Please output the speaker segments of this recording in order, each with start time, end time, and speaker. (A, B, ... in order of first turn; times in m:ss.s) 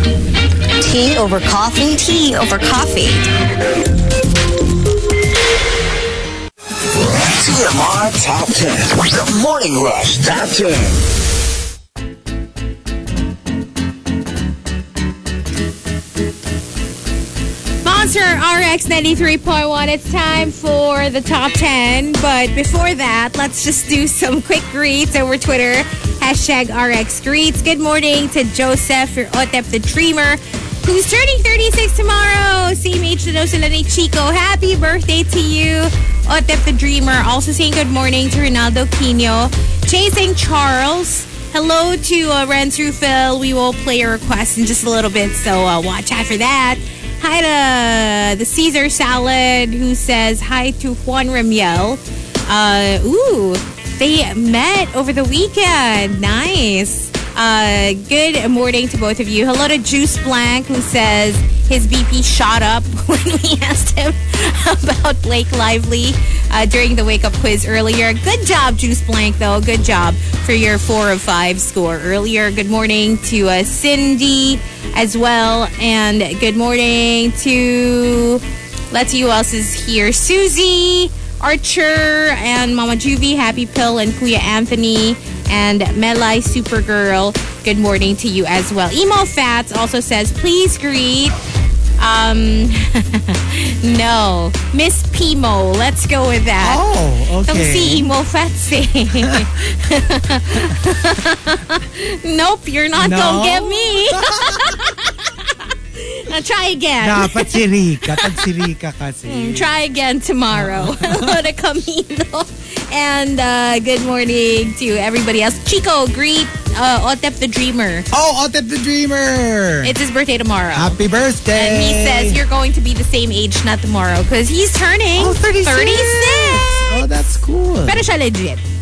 0:00.8-0:03.2 A
0:07.0-0:11.0 B
0:17.8-1:31.4 C
1:32.0-1:36.8 C
1:36.6-1:38.1 D
1:37.4-1:48.5 C
1:39.1-1:39.5 D
1:43.0-1:44.8 D
1:47.0-1:49.7 D
1:49.2-1:58.0 C
1:50.5-1:51.5 D
1:58.1-1:59.9 D
1:59.8-2:01.0 C
2:00.7-2:02.4 D
2:01.5-2:06.8 C
2:05.2-2:08.0 D
2:07.8-2:08.6 C